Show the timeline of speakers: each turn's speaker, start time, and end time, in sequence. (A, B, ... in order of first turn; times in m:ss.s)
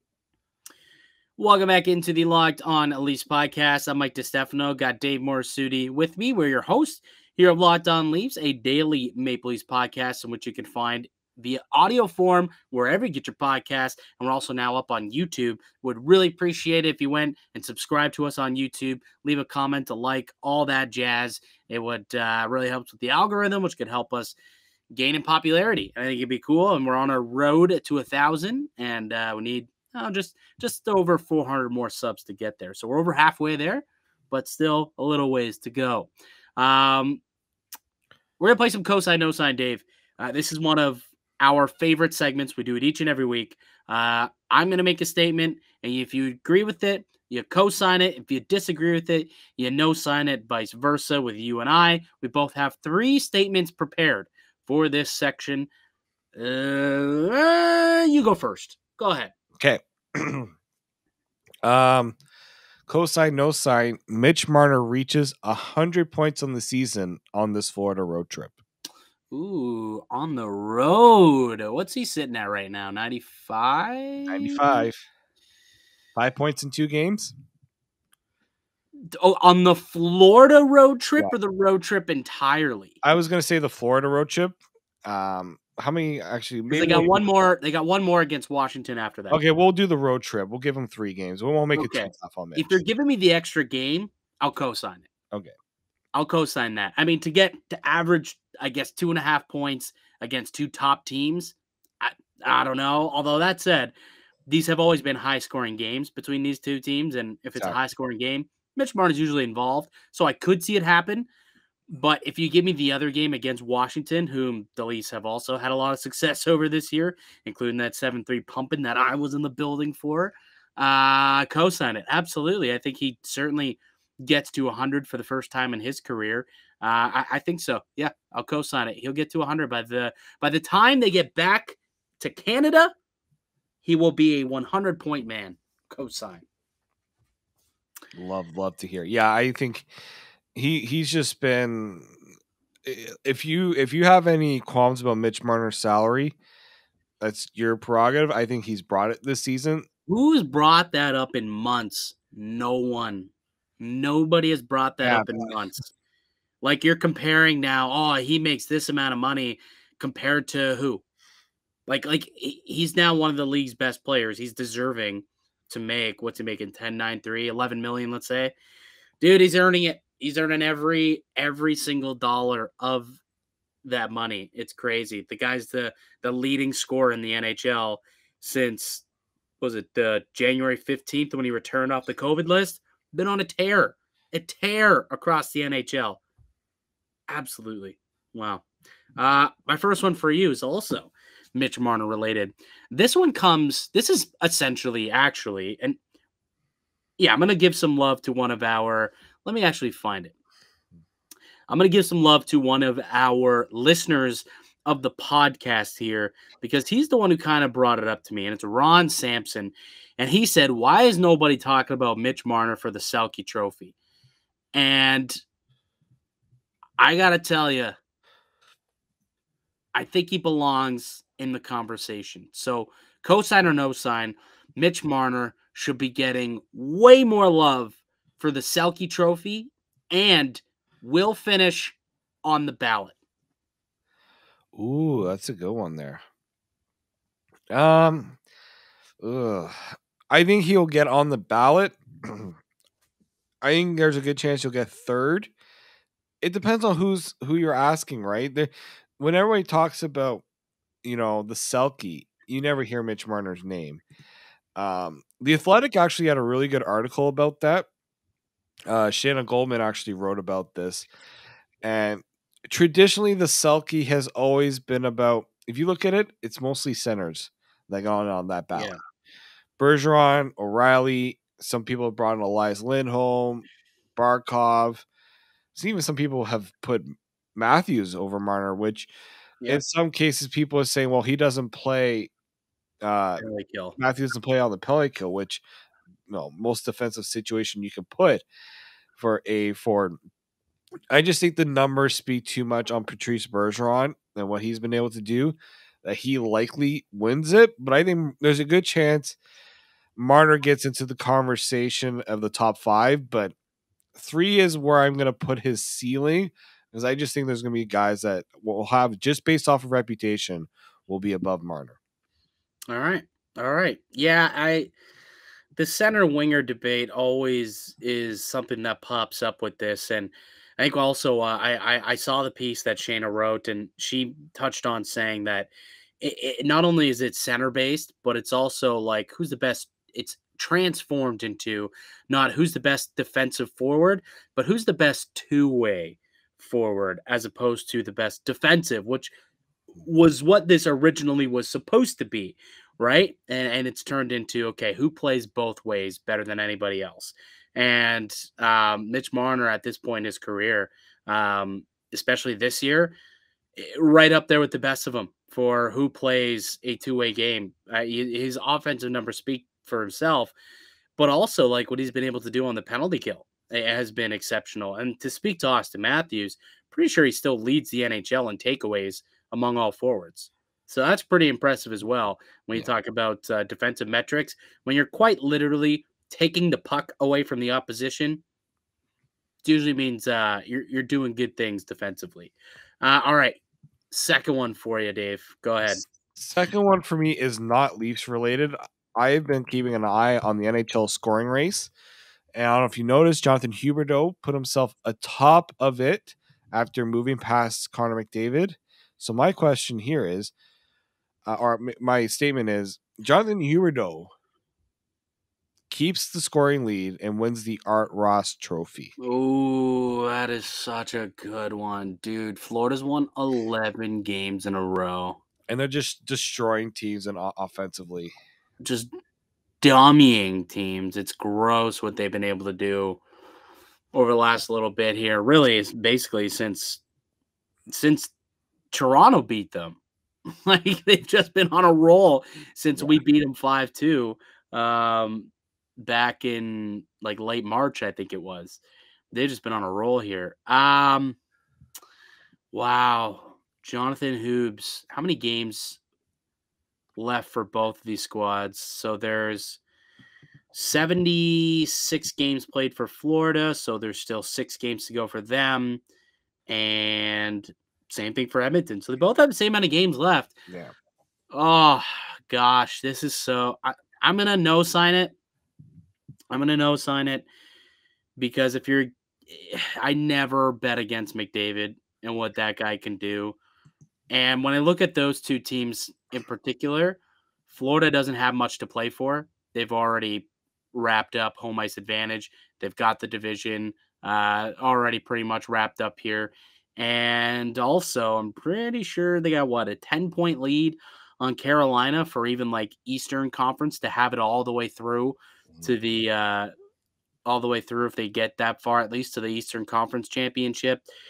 0:01.4-0:24.4 A
0:24.9-0:37.2 A
0:38.4-0:55.7 A
0:56.3-0:59.3 A
0:59.6-1:00.5 B
1:01.6-1:02.2 B
1:02.9-1:08.6 B
1:09.3-1:14.9 A
1:14.3-1:15.0 B
1:16.2-1:17.3 B
1:19.1-1:23.0 A
1:23.0-1:27.1 B
1:26.7-1:29.4 A
1:29.3-1:32.8 B
1:31.7-1:35.1 A
1:36.1-1:43.9 A
1:44.5-1:51.3 A
1:51.9-2:12.9 A
2:13.8-2:16.4 A
2:18.1-2:19.9 B
2:20.5-2:22.2 B
2:22.8-2:26.4 B
2:27.2-2:29.8 B
2:30.1-2:35.9 A
2:35.0-2:35.5 B
2:36.6-2:41.0 A
2:41.9-2:48.5 A
2:49.2-2:53.2 A
2:53.8-2:59.0 A
2:59.6-3:06.2 A
3:07.3-3:08.6 A
3:09.2-3:16.0 A
3:17.2-3:20.3 A
3:21.7-3:33.9 A
3:34.7-3:35.4 A
3:37.0-3:38.0 A
3:39.9-3:53.2 A
3:54.7-3:56.2 B
3:57.7-3:58.4 B
3:59.2-4:02.6 B
4:03.6-4:05.5 B
4:06.4-4:10.4 B
4:11.0-4:14.0 B
4:14.8-4:17.9 B
4:18.9-4:21.1 B
4:21.8-4:29.0 B
4:28.7-4:29.0 A
4:29.8-4:35.0 B
4:35.7-4:39.1 B
4:39.7-4:42.3 B
4:43.0-4:43.4 B
4:43.4-4:44.0 A
4:44.0-4:45.6 B
4:46.3-4:48.4 B
4:49.2-4:50.2 B
4:51.1-4:59.4 B
5:00.2-5:03.5 B
5:04.2-5:12.0 B
5:12.9-5:14.9 A
5:15.8-5:25.7 A
5:26.2-5:39.3 A
5:40.0-5:53.2 A
5:53.8-6:00.5 A
6:01.2-6:18.4 A
6:19.6-6:23.6 A
6:24.1-6:26.0 A
6:25.9-6:31.9 B
6:32.5-6:40.5 B
6:41.4-6:44.3 B
6:45.9-6:49.1 B
6:49.2-6:55.4 A
6:55.7-6:58.3 B
6:58.8-6:59.1 A
6:59.8-7:03.2 A
7:04.1-7:07.0 A
7:07.9-7:08.3 A
7:08.9-7:10.0 A
7:10.5-7:18.8 A
7:12.9-7:13.2 B
7:19.3-7:21.4 A
7:22.7-7:26.0 A
7:27.2-7:29.8 A
7:30.7-7:36.0 A
7:36.7-7:40.6 A
7:41.5-7:45.3 A
7:46.5-7:47.5 A
7:48.4-7:53.6 A
7:54.3-8:16.7 A
8:17.4-8:21.0 A